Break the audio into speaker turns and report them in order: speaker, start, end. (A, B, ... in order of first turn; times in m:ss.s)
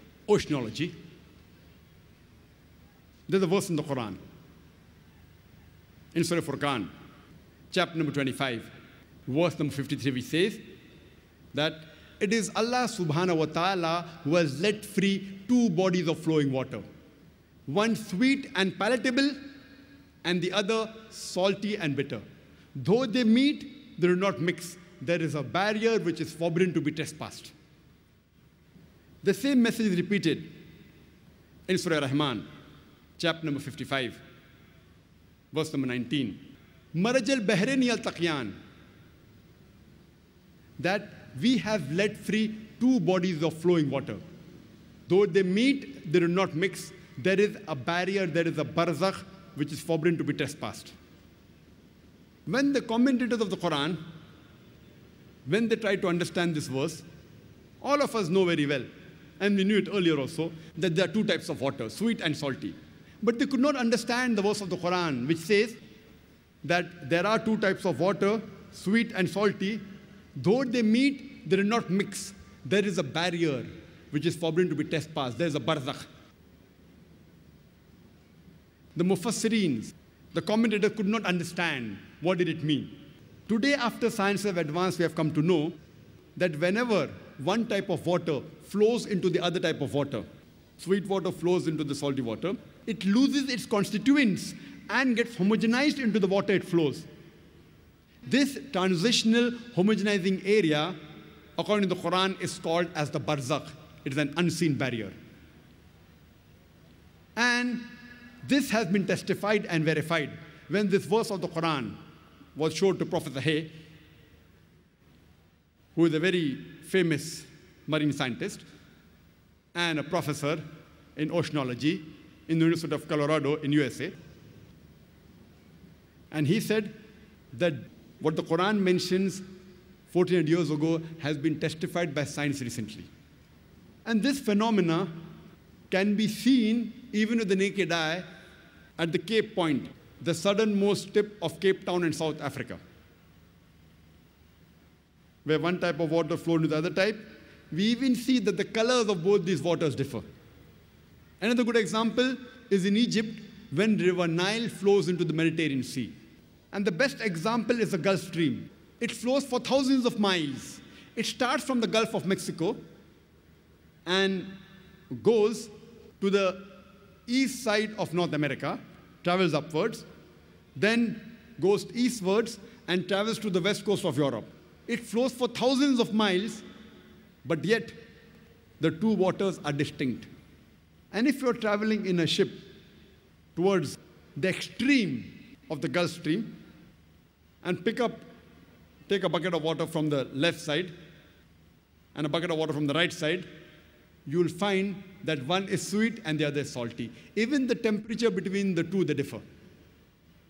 0:00.3-0:00.9 A
0:03.3-0:04.2 A
0:06.1-0:06.9 A
0:07.7-0:08.7 A
0:09.3-0:10.6 A
0:11.5-0:16.8 A
0:17.7-0:19.4 A
0:20.2-0:22.2 A
0:22.8-0:27.5 A
0:29.2-0:30.6 A
0:31.7-0:32.4 A
0:33.2-0:34.2 A
0:35.5-0:36.4 A
0:36.9-0:38.6 A
0:40.8-0:44.2 A
0:45.1-0:50.9 A
0:52.5-0:54.0 A
0:55.5-0:57.0 A
0:57.8-0:58.9 A
0:59.4-1:05.8 A
1:06.6-1:09.8 A
1:10.4-1:16.1 A
1:19.0-1:22.9 A
1:23.5-1:25.8 A
1:26.4-1:30.2 A
1:30.8-1:37.1 A
1:38.3-1:41.0 A
1:41.6-1:45.1 A
1:47.4-1:47.9 A
1:48.4-1:52.0 A
1:52.6-1:53.7 A
1:56.0-1:58.6 A
1:59.8-2:00.6 A
2:01.2-2:04.1 A
2:06.3-2:06.9 A
2:07.5-2:09.4 A
2:10.1-2:13.1 A
2:14.0-2:15.1 A
2:15.9-2:18.3 A
2:19.0-2:22.8 A
2:25.4-2:30.2 A
2:31.4-2:36.1 A
2:36.7-2:42.8 A
2:44.1-2:44.5 A
2:45.1-2:50.1 A
2:50.8-2:56.6 A
2:57.4-2:58.0 A
2:58.8-3:00.3 A
3:01.1-3:02.6 A
3:03.6-3:06.5 A
3:07.6-3:08.2 A
3:09.1-3:10.9 A
3:12.1-3:13.5 A
3:14.3-3:19.4 A